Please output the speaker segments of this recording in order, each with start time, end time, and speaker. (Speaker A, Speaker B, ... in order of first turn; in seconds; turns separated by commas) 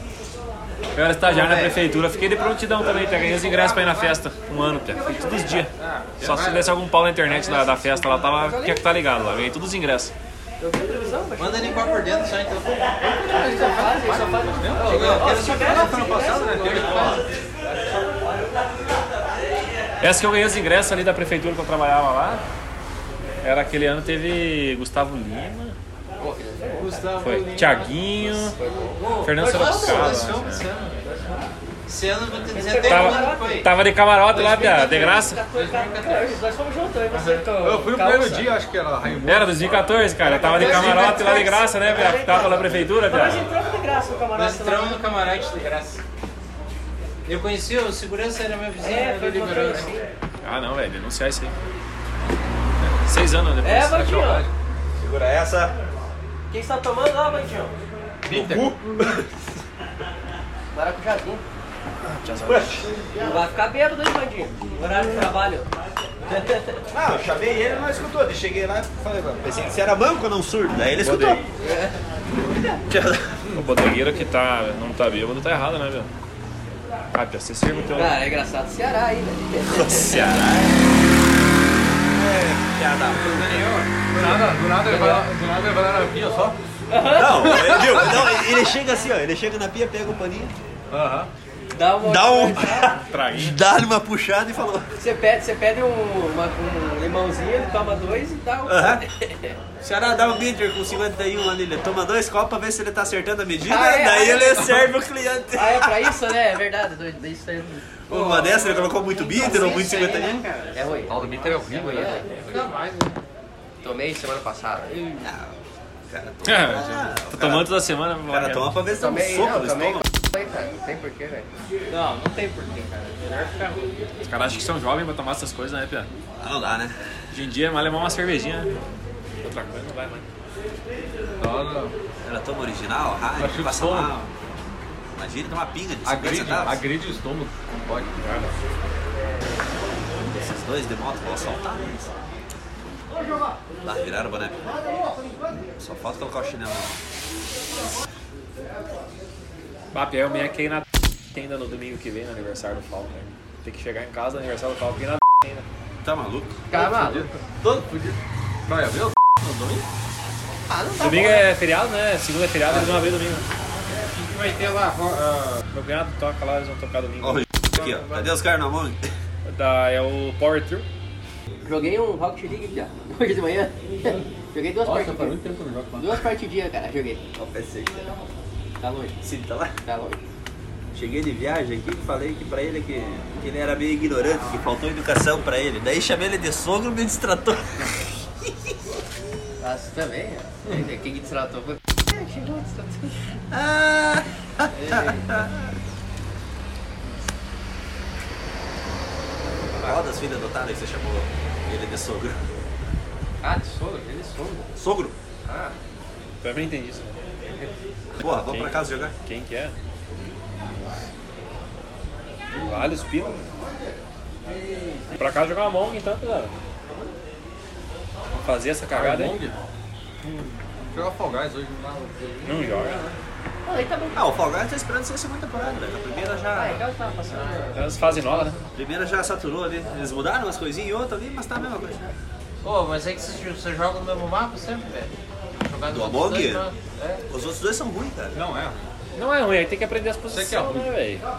Speaker A: 0.9-10.1, Speaker B: 1.3-1.8, Speaker C: 2.9-4.2, Speaker B: 5.0-5.7, Speaker C: 5.8-6.8, Speaker B: 7.3-8.8, Speaker B: 10.6-12.0, Speaker C: 11.4-17.2, Speaker D: 13.3-17.2, Speaker B: 13.3-18.2, Speaker A: 20.0-22.4, Speaker A: 23.4-25.8, Speaker B: 26.2-27.1, Speaker C: 26.8-28.0, Speaker A: 27.2-28.6, Speaker B: 28.2-30.2, Speaker C: 28.9-31.1, Speaker A: 29.2-30.7, Speaker B: 31.0-31.5, Speaker C: 31.9-33.7, Speaker B: 32.5-33.7, Speaker A: 32.8-35.4, Speaker C: 34.3-36.4, Speaker B: 34.4-38.5, Speaker C: 37.1-37.5, Speaker D: 37.5-40.0, Speaker A: 39.2-43.5, Speaker B: 40.2-45.1, Speaker C: 40.5-41.4, Speaker D: 40.6-41.1, Speaker C: 44.3-46.0, Speaker C: 47.2-49.9, Speaker B: 48.8-50.1, Speaker A: 50.4-51.5, Speaker A: 53.0-54.5, Speaker B: 53.6-54.5, Speaker E: 55.0-55.8, Speaker B: 56.5-57.8, Speaker D: 58.2-59.2, Speaker B: 58.3-58.9, Speaker B: 60.7-61.4, Speaker A: 62.0-62.9, Speaker E: 62.5-62.9, Speaker B: 63.2-65.7, Speaker B: 66.3-66.8, Speaker E: 66.9-71.4, Speaker D: 69.0-69.5, Speaker A: 71.0-71.4, Speaker B: 71.6-72.8, Speaker E: 72.9-73.5, Speaker A: 73.5-76.1, Speaker A: 77.1-78.2, Speaker B: 77.9-80.2, Speaker E: 79.7-80.8, Speaker E: 82.1-83.7, Speaker C: 83.1-84.0, Speaker D: 84.1-86.6, Speaker B: 84.2-85.3, Speaker B: 86.9-88.7, Speaker E: 87.1-90.6, Speaker D: 87.6-87.9, Speaker D: 90.9-91.3, Speaker B: 91.7-92.9, Speaker E: 92.0-95.0, Speaker A: 92.6-93.6, Speaker B: 95.0-99.6, Speaker E: 98.7-99.0, Speaker E: 99.8-106.2, Speaker B: 103.6-104.8, Speaker B: 105.5-107.9, Speaker E: 108.1-110.5, Speaker C: 108.1-113.2, Speaker B: 109.1-110.0, Speaker B: 110.7-112.4, Speaker D: 111.1-112.6, Speaker B: 113.8-115.3, Speaker E: 115.2-115.6, Speaker E: 116.1-120.1, Speaker A: 116.5-118.8, Speaker B: 119.0-121.5, Speaker C: 121.9-124.0, Speaker A: 124.2-126.1, Speaker E: 126.4-127.0, Speaker A: 127.3-128.7, Speaker A: 129.4-130.2, Speaker D: 131.4-131.9, Speaker E: 132.2-134.3, Speaker D: 133.4-134.3, Speaker E: 135.2-136.8, Speaker D: 136.1-138.2, Speaker A: 138.2-138.5, Speaker E: 140.2-142.1, Speaker E: 143.8-144.6, Speaker E: 145.7-147.0, Speaker A: 149.9-155.7, Speaker E: 156.0-156.6, Speaker B: 156.7-157.3, Speaker D: 156.7-159.8, Speaker B: 160.7-161.5, Speaker A: 161.0-163.4, Speaker C: 164.0-165.6, Speaker A: 165.7-167.4, Speaker E: 167.2-169.1, Speaker C: 167.7-168.3, Speaker A: 169.4-170.9, Speaker B: 171.6-175.4, Speaker D: 174.8-176.2, Speaker B: 176.0-177.2, Speaker E: 177.3-178.1, Speaker B: 178.8-179.2, Speaker E: 179.2-179.7, Speaker B: 179.8-180.2, Speaker E: 180.9-188.5, Speaker B: 189.6-193.1, Speaker E: 193.5-195.7, Speaker B: 194.7-195.4, Speaker E: 199.7-202.5, Speaker B: 203.4-204.7, Speaker E: 204.8-205.2, Speaker B: 205.4-205.8, Speaker A: 206.4-207.2, Speaker E: 208.2-209.1, Speaker A: 208.5-209.8, Speaker D: 212.5-212.9, Speaker A: 212.6-213.5, Speaker A: 215.2-216.6, Speaker A: 218.3-219.4, Speaker D: 218.9-219.6, Speaker A: 220.2-220.6, Speaker D: 220.9-222.5, Speaker C: 222.0-223.1, Speaker A: 222.4-223.1, Speaker B: 223.7-224.3, Speaker E: 224.1-226.8, Speaker B: 226.5-228.3, Speaker C: 227.3-228.7, Speaker A: 227.7-228.6, Speaker E: 228.7-232.1, Speaker C: 232.6-237.2, Speaker E: 235.9-236.7, Speaker E: 237.3-238.4, Speaker D: 238.3-238.9, Speaker A: 239.2-241.2, Speaker D: 240.3-240.9